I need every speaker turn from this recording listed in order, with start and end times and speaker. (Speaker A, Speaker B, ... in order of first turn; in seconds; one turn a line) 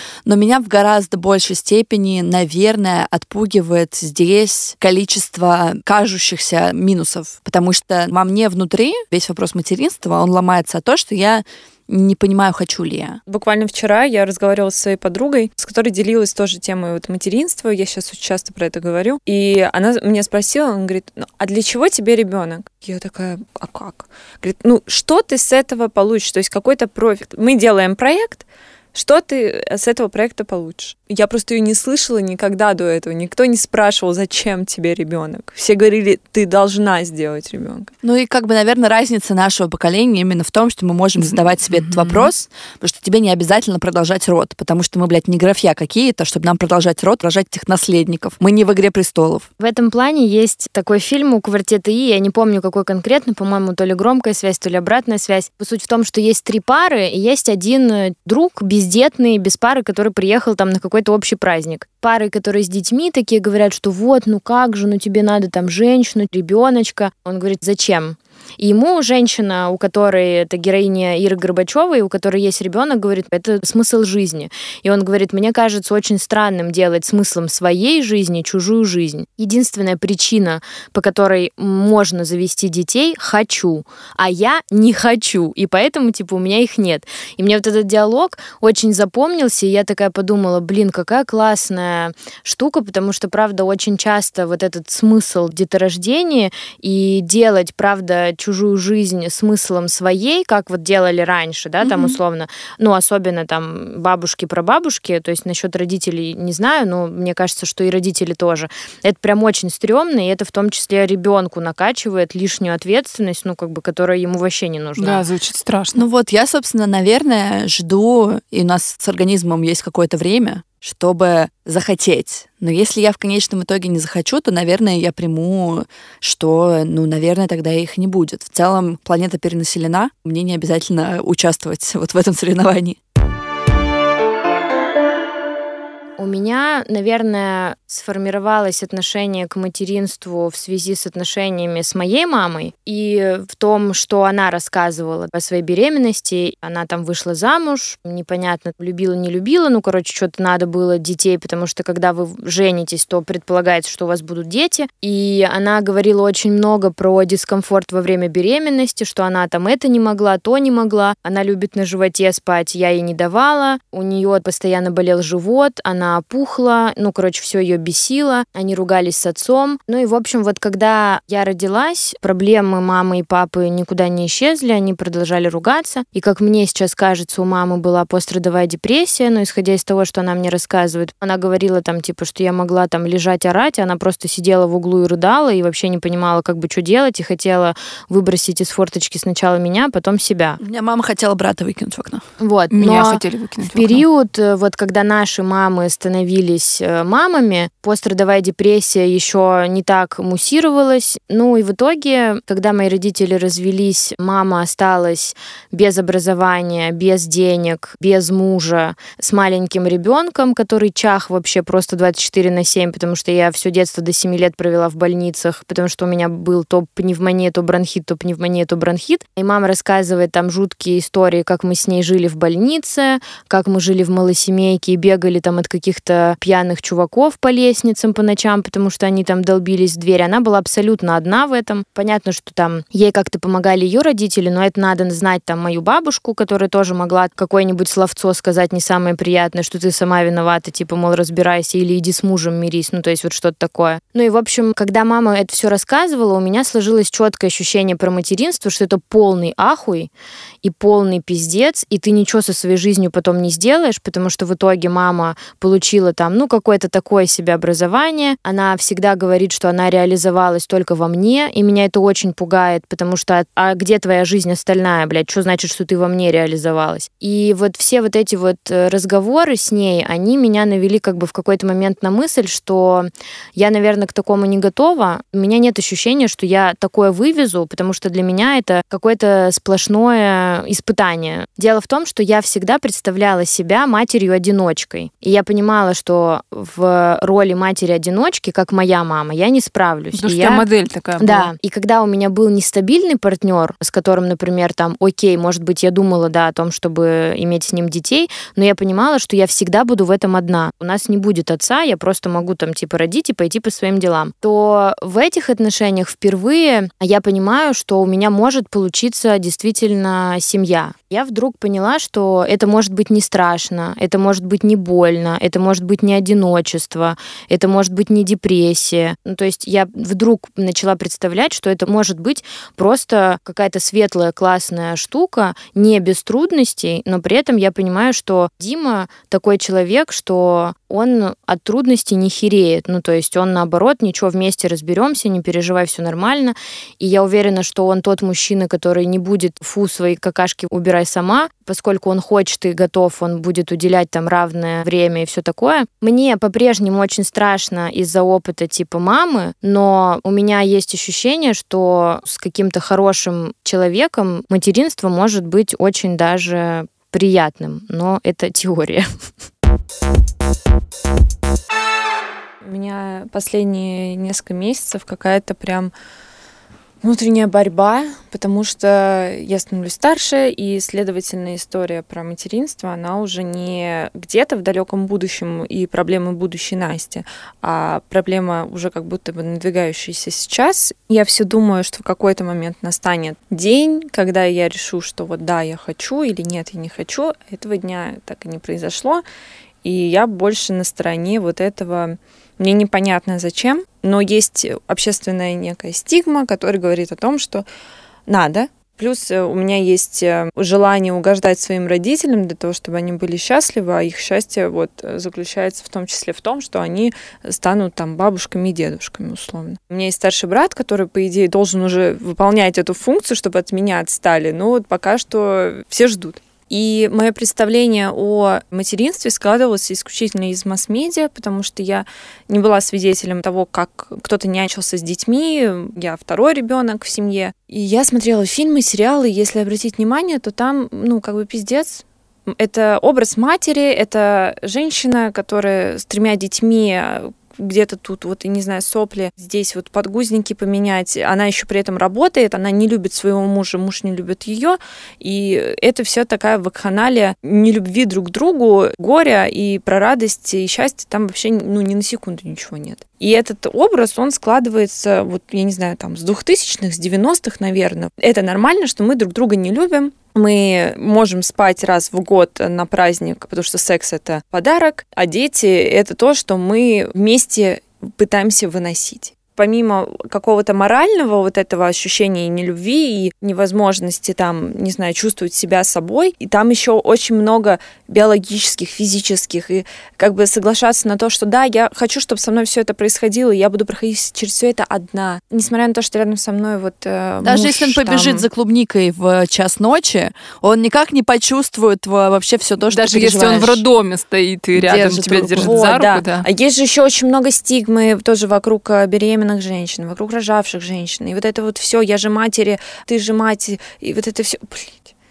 Speaker A: 0.2-13.2
Speaker B: 13.2-37.9
Speaker A: 38.0-49.5
Speaker C: 41.2-42.3
Speaker D: 49.6-115.2
Speaker C: 115.0-116.0
Speaker A: 115.9-133.0
Speaker D: 136.2-190.6
Speaker A: 190.6-192.2
Speaker D: 192.4-250.1
Speaker C: 192.7-194.0
Speaker D: 250.6-290.6
Speaker C: 290.2-291.5
Speaker D: 291.2-359.1
Speaker B: 362.6-365.9
Speaker B: 367.0-389.2
Speaker B: 389.8-397.6
Speaker B: 398.3-488.4
Speaker A: 487.4-493.8
Speaker C: 492.9-496.4
Speaker A: 494.7-495.7
Speaker B: 495.6-505.1